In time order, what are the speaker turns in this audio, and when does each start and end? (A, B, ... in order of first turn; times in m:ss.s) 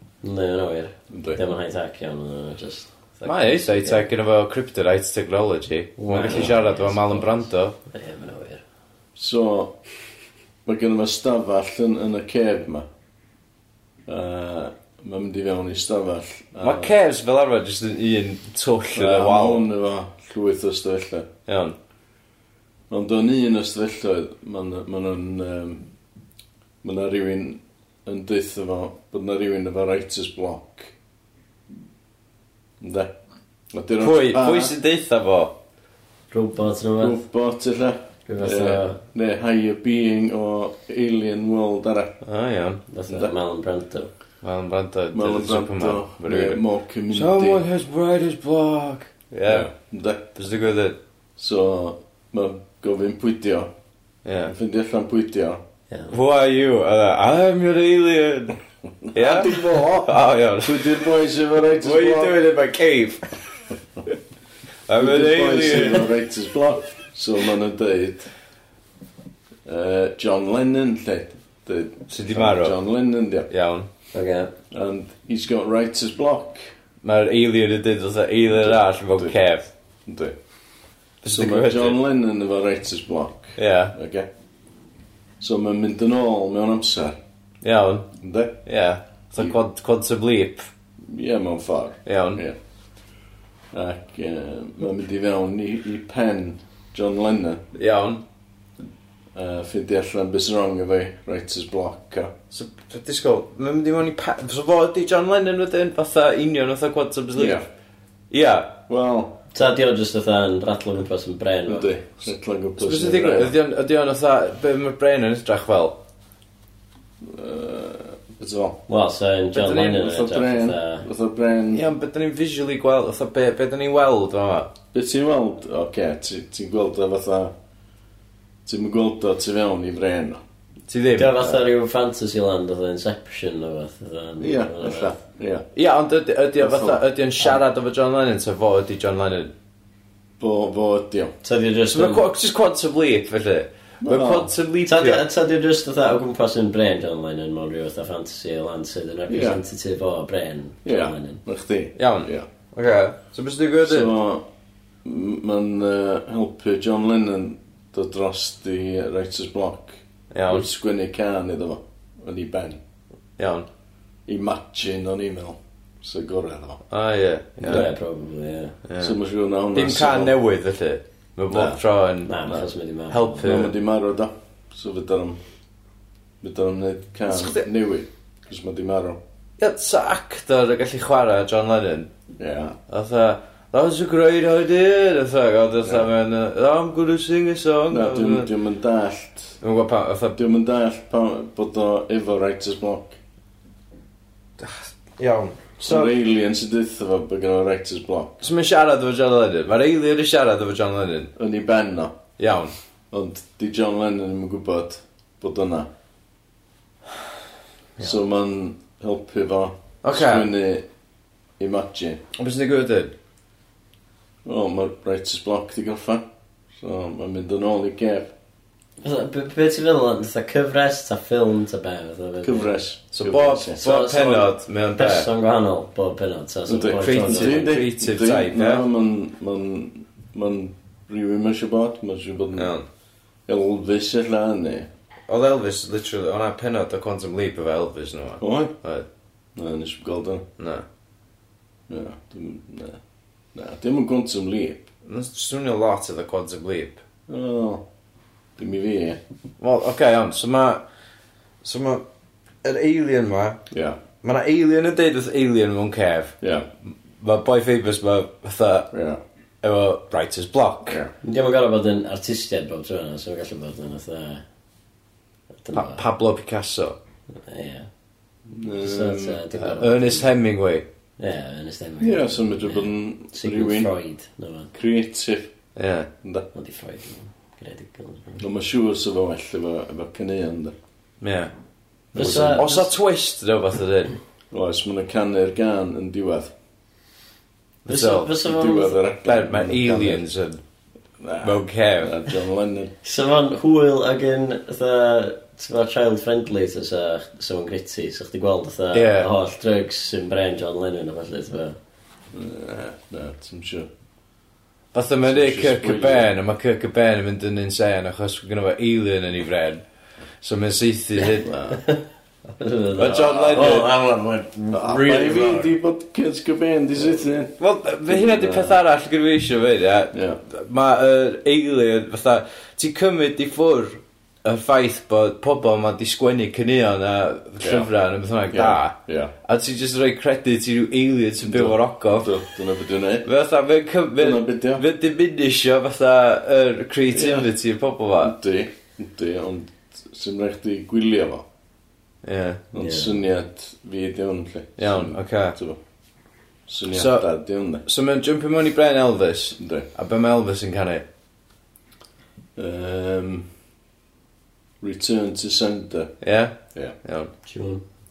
0:00.2-0:04.0 A
0:01.1-0:01.4 B
0:03.2-0:07.7 C
0:06.0-0:08.6 A
0:09.2-0:09.8 B
0:10.6-0:12.9 B
0:14.1-0:16.9 B
0:16.6-0:19.6 C
0:18.9-0:21.3 B
0:21.5-0:21.8 C
0:22.9-0:25.8 B
0:26.8-0:30.9 B
0:32.8-0:33.1 B
0:33.7-0:34.7 B
0:34.0-0:35.5 C
0:36.3-0:37.2 A
0:37.0-0:42.2 B
0:38.3-0:39.0 A
0:42.2-0:42.8 C
0:42.9-0:44.1 A
0:44.4-0:49.7 C
0:45.1-0:47.6 B
0:49.5-0:50.4 B
0:50.4-0:51.0 C
0:51.4-0:53.7 B
0:54.2-0:54.5 C
0:54.4-0:55.6 B
0:56.1-1:01.0 C
0:59.1-1:02.4 B
1:01.8-1:03.7 C
1:04.9-1:06.1 C
1:05.0-1:08.3 B
1:09.6-1:13.5 B
1:12.1-1:12.8 C
1:13.5-1:13.9 C
1:14.1-1:14.5 A
1:14.7-1:16.7 B
1:17.0-1:19.7 C
1:18.5-1:19.4 B
1:20.0-1:20.4 B
1:21.2-1:22.0 C
1:21.3-1:24.3 B
1:23.6-1:23.9 C
1:25.4-1:27.2 B
1:27.6-1:28.1 C
1:28.2-1:28.6 B
1:28.6-1:30.7 C
1:31.0-1:32.6 B
1:32.0-1:32.4 C
1:33.7-1:37.6 B
1:37.8-1:38.2 C
1:39.3-1:42.3 B
1:42.5-1:47.6 C
1:47.3-1:47.6 B
1:48.3-1:48.8 C
1:48.9-1:49.4 B
1:49.5-1:51.9 A
1:51.6-1:53.5 B
1:52.8-1:56.0 C
1:57.2-1:58.8 B
1:58.9-2:01.0 A
1:59.5-2:00.1 C
1:59.9-2:01.8 B
2:01.7-2:04.7 C
2:04.9-2:07.5 B
2:08.6-2:10.4 B
2:10.9-2:11.6 C
2:11.2-2:15.2 A
2:14.4-2:15.6 B
2:15.7-2:19.5 C
2:16.6-2:17.0 B
2:20.4-2:21.3 B
2:21.4-2:22.2 A
2:21.9-2:25.2 C
2:24.0-2:24.5 B
2:24.8-2:31.4 A
2:29.3-2:29.6 B
2:30.8-2:32.5 B
2:32.0-2:34.1 C
2:33.8-2:34.5 B
2:35.0-2:42.8 B
2:40.3-2:40.6 C
2:43.4-2:43.7 C
2:44.3-2:46.8 B
2:46.9-2:47.9 C
2:47.6-2:48.8 A
2:47.6-2:47.9 B
2:48.9-2:49.2 C
2:49.0-2:50.4 B
2:49.7-2:53.7 C
2:51.5-2:51.8 B
2:52.2-2:53.4 A
2:53.4-2:55.4 B
2:56.4-2:59.2 B
2:57.3-2:57.6 C
2:59.6-3:02.1 C
3:02.4-3:02.8 B
3:02.9-3:08.5 C
3:05.8-3:06.1 B
3:07.9-3:09.6 B
3:09.6-3:10.4 C
3:10.3-3:13.2 B
3:14.6-3:16.1 C
3:15.8-3:18.5 B
3:18.4-3:21.3 C
3:21.4-3:22.2 B
3:22.4-3:22.7 C
3:23.1-3:25.9 B
3:28.0-3:30.8 B
3:30.0-3:30.5 C
3:31.6-3:32.2 B
3:32.4-3:33.1 C
3:34.4-3:38.3 B
3:39.0-3:42.8 A
3:42.4-3:43.8 B
3:43.1-3:45.3 C
3:43.8-3:47.7 A
3:46.7-3:52.8 B
3:46.9-3:48.8 C
3:52.5-3:52.8 C
3:53.5-3:54.9 B
3:55.3-3:59.0 C
3:58.4-3:58.7 B
3:59.5-4:00.4 B
4:00.6-4:00.8 C
4:01.9-4:03.0 B
4:03.5-4:04.9 B
4:05.0-4:07.0 C
4:07.3-4:07.8 B
4:08.6-4:09.2 B
4:09.6-4:10.8 C
4:11.6-4:12.0 C
4:12.6-4:13.6 C
4:13.7-4:14.0 B
4:14.2-4:16.4 C
4:16.4-4:16.7 B
4:17.2-4:18.9 C
4:18.9-4:19.2 B
4:19.6-4:21.0 C
4:20.8-4:21.1 B
4:21.2-4:24.4 A
4:25.6-4:26.0 A
4:25.7-4:27.0 C
4:27.3-4:27.9 A
4:28.5-4:29.4 B
4:28.8-4:30.2 A
4:29.6-4:30.8 C
4:31.2-4:34.7 A
4:32.0-4:33.9 B
4:34.7-4:35.5 B
4:35.8-4:36.1 C
4:36.2-4:36.5 B
4:36.5-4:38.4 A
4:38.4-4:40.7 B
4:41.2-4:41.5 C
4:42.1-4:42.6 B
4:42.1-4:42.9 A
4:42.2-4:44.1 C
4:44.5-4:46.5 B
4:47.8-4:48.4 C
4:47.9-4:49.0 A
4:48.4-4:50.2 B
4:49.2-4:50.6 C
4:51.2-4:52.9 B
4:51.4-4:52.2 C
4:53.0-5:01.8 A
4:58.9-4:59.3 C
5:02.3-5:03.9 B
5:04.9-5:09.8 C
5:05.2-5:06.3 B
5:10.4-5:11.5 C
5:11.4-5:11.8 B
5:11.6-5:15.7 A
5:13.0-5:13.9 C
5:14.7-5:18.8 B
5:17.6-5:32.4 C
5:20.1-5:20.4 B
5:27.6-5:27.9 B
5:28.5-5:29.3 B
5:31.4-5:33.3 B
5:33.2-5:38.4 C
5:34.2-5:34.8 B
5:37.1-5:37.5 B
5:38.2-5:41.4 B
5:42.2-5:42.6 C
5:42.7-5:45.8 B
5:42.8-5:43.1 A
5:44.8-5:45.6 C
5:46.7-5:47.8 B
5:46.9-5:51.0 C
5:49.6-5:49.9 B
5:52.6-5:53.5 B
5:54.8-5:56.1 B
5:56.2-5:57.3 C
5:57.4-5:57.8 A